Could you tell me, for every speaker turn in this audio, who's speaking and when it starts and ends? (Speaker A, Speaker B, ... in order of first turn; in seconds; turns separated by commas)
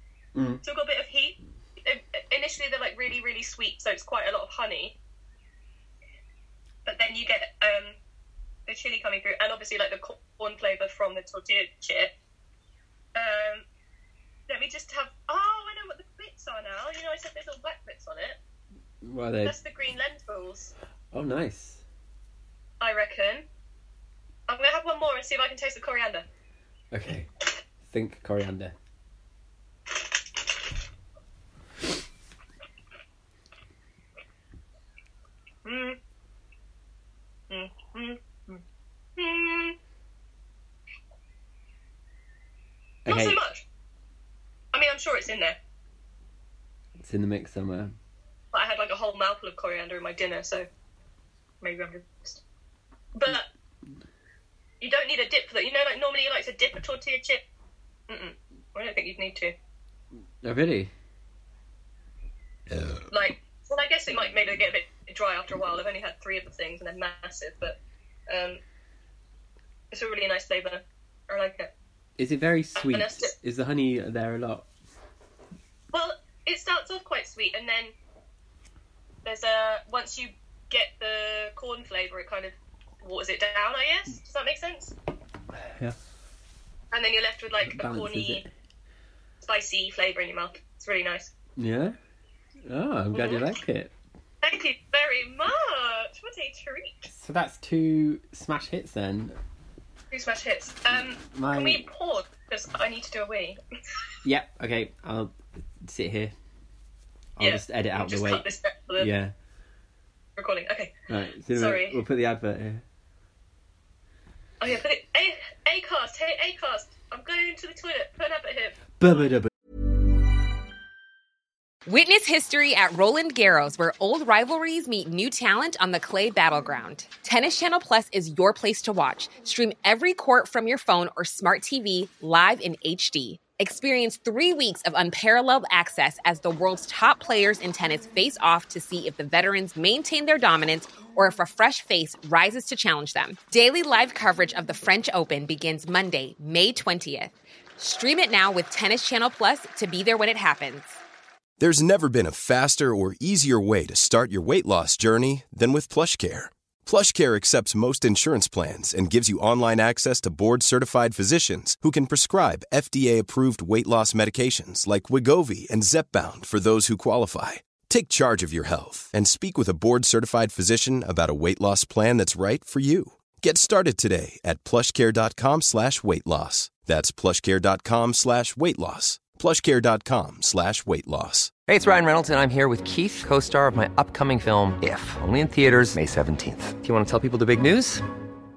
Speaker A: 0.3-0.6, Speaker B: 0.6-5.0, Speaker B: 6.8-8.0, Speaker B: 8.7-12.1, Speaker B: 13.2-13.7, Speaker B: 14.5-18.4, Speaker A: 19.0-19.6, Speaker B: 19.4-20.7, Speaker A: 21.1-21.8, Speaker B: 22.8-23.5, Speaker B: 24.5-26.3, Speaker A: 26.9-27.3, Speaker A: 27.9-28.8, Speaker B: 35.6-36.0, Speaker B: 37.5-38.6, Speaker B: 39.2-39.8, Speaker A: 43.0-43.4, Speaker B: 43.1-43.6, Speaker B: 44.7-45.6, Speaker A: 47.0-48.0, Speaker B: 48.5-50.7, Speaker B: 51.6-52.4, Speaker B: 53.1-53.5, Speaker B: 54.8-57.4, Speaker B: 58.1-59.5, Speaker A: 60.4-60.9, Speaker B: 63.1-67.8, Speaker B: 68.3-68.6, Speaker B: 69.9-71.7, Speaker A: 72.2-74.7, Speaker B: 72.8-73.3, Speaker B: 75.9-78.0, Speaker B: 79.2-85.0, Speaker A: 85.5-86.0, Speaker B: 86.9-88.5, Speaker A: 87.6-88.5, Speaker B: 89.4-91.3, Speaker A: 91.6-92.0, Speaker A: 92.7-93.9, Speaker B: 93.1-93.5, Speaker B: 94.4-97.1, Speaker A: 97.1-99.4, Speaker B: 100.1-103.6, Speaker A: 101.2-101.9, Speaker A: 104.2-106.3, Speaker A: 107.4-109.3, Speaker B: 107.4-109.1, Speaker B: 110.4-111.0, Speaker A: 111.1-112.8, Speaker B: 111.5-112.0, Speaker B: 114.6-118.9, Speaker A: 119.0-119.5, Speaker C: 121.9-151.0, Speaker D: 151.6-181.6, Speaker E: 181.7-188.1